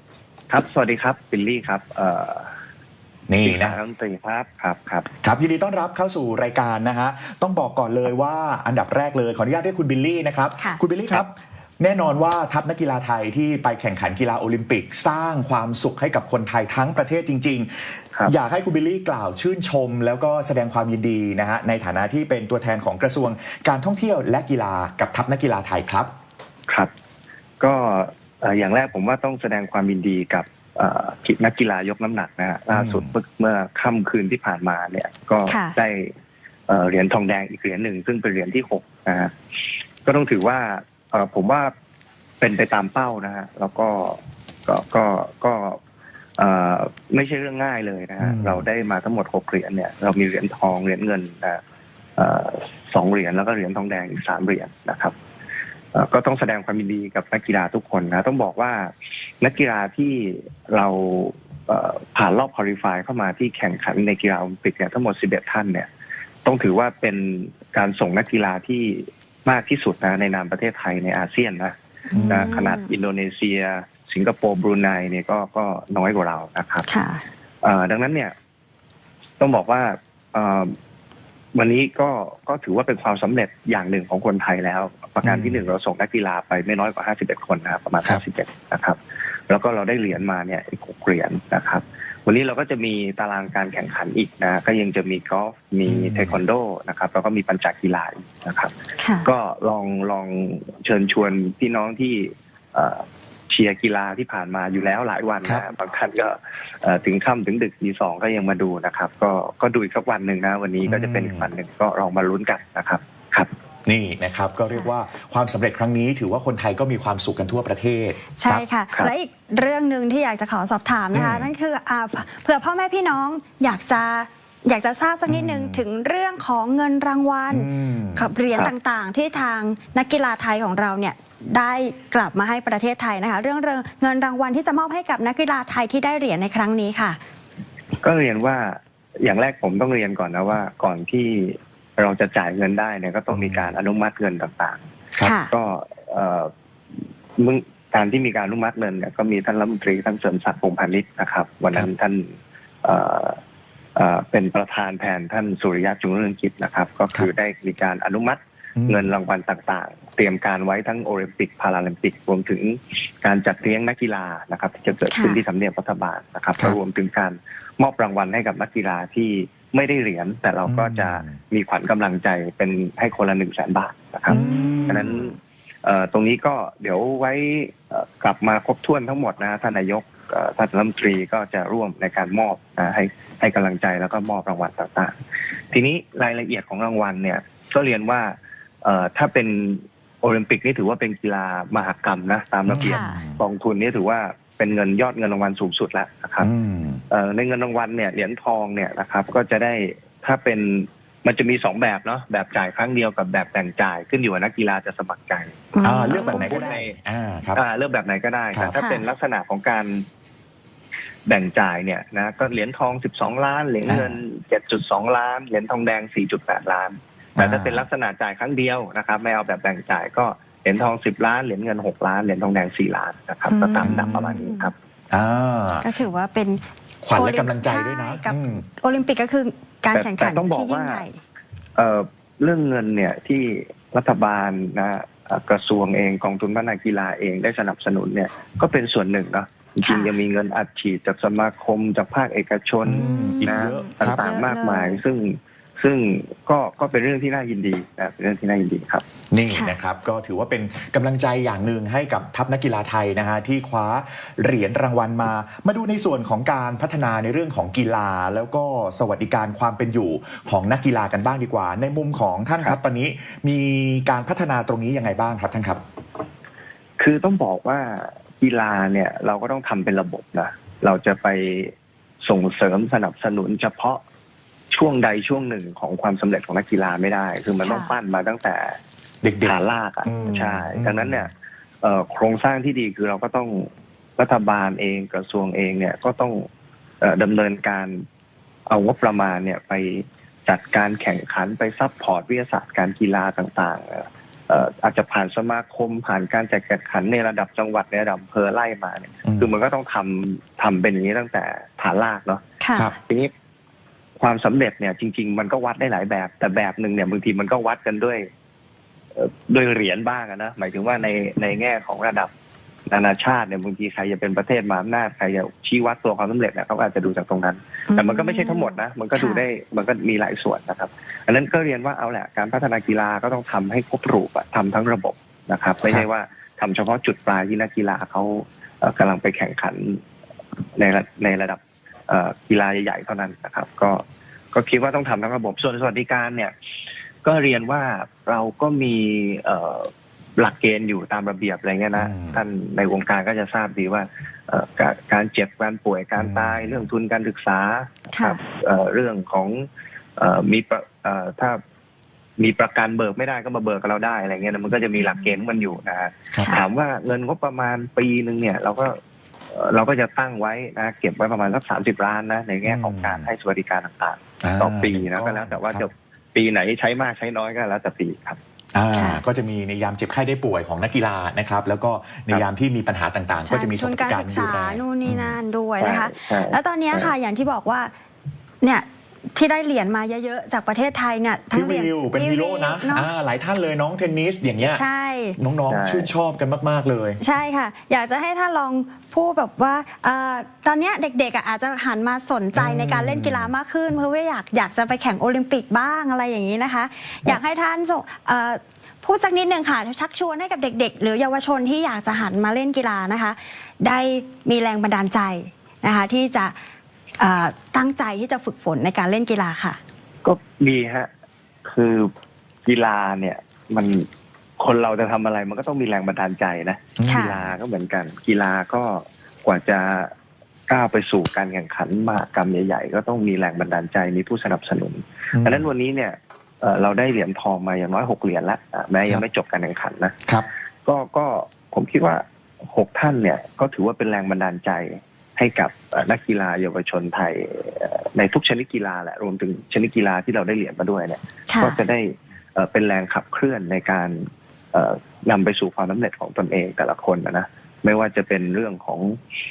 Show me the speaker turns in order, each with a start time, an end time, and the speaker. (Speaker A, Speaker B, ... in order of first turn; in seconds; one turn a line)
Speaker A: 0.5-2.5
Speaker B: 3.3-3.8
Speaker A: 3.4-5.1
Speaker B: 5.2-26.1
Speaker C: 10.6-11.2
Speaker A: 27.6-36.1
Speaker B: 32.7-33.1
Speaker C: 35.5-35.8
Speaker A: 36.7-39.3
Speaker A: 40.0-41.7
Speaker A: 42.4-45.8
Speaker A: 46.4-51.6
Speaker B: 48.2-48.7
Speaker A: 52.2-55.1
Speaker A: 55.9-65.9
Speaker A: 66.5-71.7
Speaker C: 72.1-72.9
Speaker B: 72.1-72.7
Speaker A: 72.3-76.9
Speaker C: 76.8-77.2
Speaker A: 77.6-78.3
Speaker A: 79.4-80.7
Speaker A: 81.5-89.0
Speaker B: 85.2-85.6
Speaker A: 89.5-98.7
Speaker B: 95.9-96.4
Speaker C: 99.0-99.3
Speaker A: 99.2-113.5
Speaker B: 110.8-111.5
Speaker B: 113.9-118.7
Speaker C: 118.4-137.2
Speaker B: 121.1-121.5
Speaker B: 125.3-125.8
Speaker B: 127.5-128.3
Speaker A: 138.0-144.8
Speaker B: 143.3-143.7
Speaker C: 145.2-145.5
Speaker A: 145.4-146.5
Speaker A: 147.4-152.3
Speaker A: 152.8-153.4
Speaker A: 154.0-185.2
Speaker B: 158.8-159.1
Speaker C: 165.1-165.4
Speaker B: 170.7-171.4
Speaker B: 174.3-175.1
Speaker C: 174.3-175.3
Speaker A: 185.7-196.5
Speaker B: 192.7-193.4
Speaker C: 192.8-193.2
Speaker B: 196.4-197.0
Speaker A: 197.1-207.0
Speaker C: 205.7-206.6
Speaker B: 205.8-207.6
Speaker A: 207.5-210.1
Speaker C: 208.8-209.1
Speaker A: 211.3-224.8
Speaker B: 213.9-214.2
Speaker B: 217.4-217.8
Speaker C: 223.5-224.7
Speaker B: 223.8-224.4
Speaker B: 225.1-225.9
Speaker C: 225.8-231.2
Speaker B: 227.0-228.7
Speaker A: 229.9-231.1
Speaker A: 231.8-249.0
Speaker C: 239.8-240.2
Speaker B: 242.8-244.2
Speaker C: 242.9-245.0
Speaker B: 249.3-265.8
Speaker C: 249.5-249.8
Speaker A: 267.0-274.0
Speaker A: 274.7-278.8
Speaker C: 277.6-277.9
Speaker B: 279.2-281.3
Speaker A: 279.4-281.3
Speaker A: 281.8-286.4
Speaker A: 287.0-288.0
Speaker A: 288.7-302.4
Speaker B: 299.2-299.5
Speaker C: 302.6-302.9
Speaker A: 303.0-303.3
Speaker A: 304.2-308.2
Speaker A: 309.1-312.3
Speaker A: 312.9-330.0
Speaker C: 317.9-319.4
Speaker A: 330.8-336.5
Speaker A: 337.2-351.6
Speaker B: 341.9-342.4
Speaker B: 346.2-346.8
Speaker C: 348.1-348.4
Speaker A: 352.4-358.9
Speaker C: 356.4-356.6
Speaker A: 359.5-368.4
Speaker B: 362.6-363.3
Speaker B: 364.4-365.9
Speaker B: 368.8-375.4
Speaker C: 368.9-369.2
Speaker C: 373.4-377.9
Speaker A: 375.8-377.1
Speaker C: 378.6-383.1
Speaker B: 381.5-384.8
Speaker C: 384.7-385.4
Speaker B: 385.4-387.2
Speaker A: 385.7-386.1
Speaker C: 387.2-406.5
Speaker B: 392.5-393.5
Speaker C: 407.2-409.8
Speaker A: 410.2-411.1
Speaker A: 411.6-412.1
Speaker A: 412.6-414.1
Speaker A: 414.6-420.1
Speaker B: 417.0-417.6
Speaker C: 417.0-417.4
Speaker A: 420.7-430.2
Speaker B: 425.3-425.7
Speaker A: 430.9-449.2
Speaker C: 441.5-441.8